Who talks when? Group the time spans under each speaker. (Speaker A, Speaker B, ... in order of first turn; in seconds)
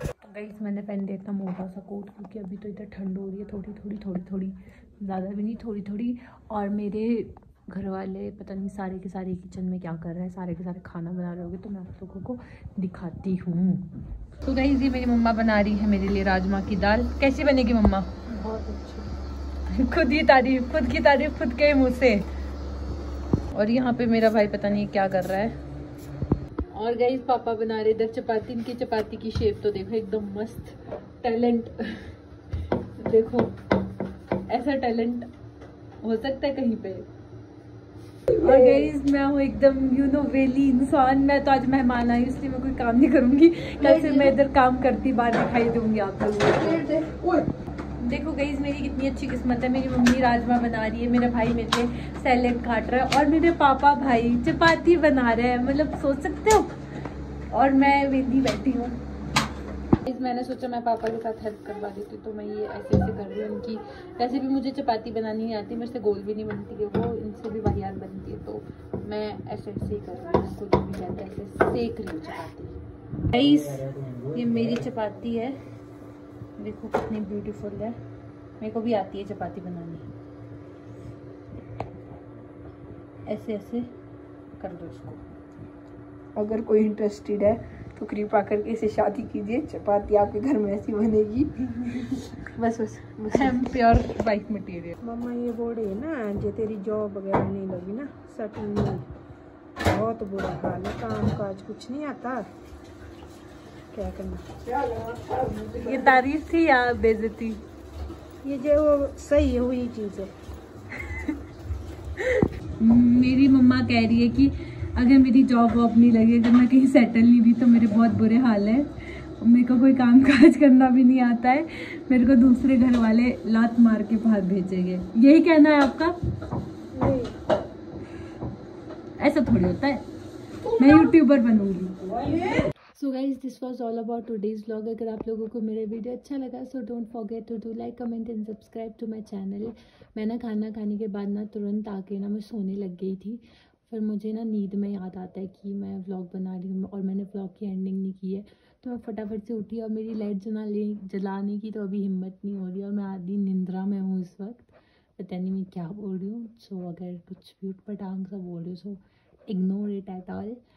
Speaker A: 0.3-18.1, 19.7-22.3, 23.5-25.6, 26.7-32.1, 32.7-33.6, 34.5-35.3, 36.0-37.1, 38.3-47.0, 48.0-56.8, 57.5-59.0, 60.0-75.6, 76.6-78.0, 78.6-80.1, 83.3-83.9, 84.6-85.2, 91.6-95.0, 105.7-107.6, 112.8-126.2, 129.2-130.1, 130.7-132.0, 132.9-160.6
Speaker B: 18.3-19.1, 43.8-44.3, 47.0-47.4, 86.4-91.5, 92.6-93.5, 95.0-99.1, 99.8-102.5, 103.9-105.8, 108.4-110.3, 126.9-127.3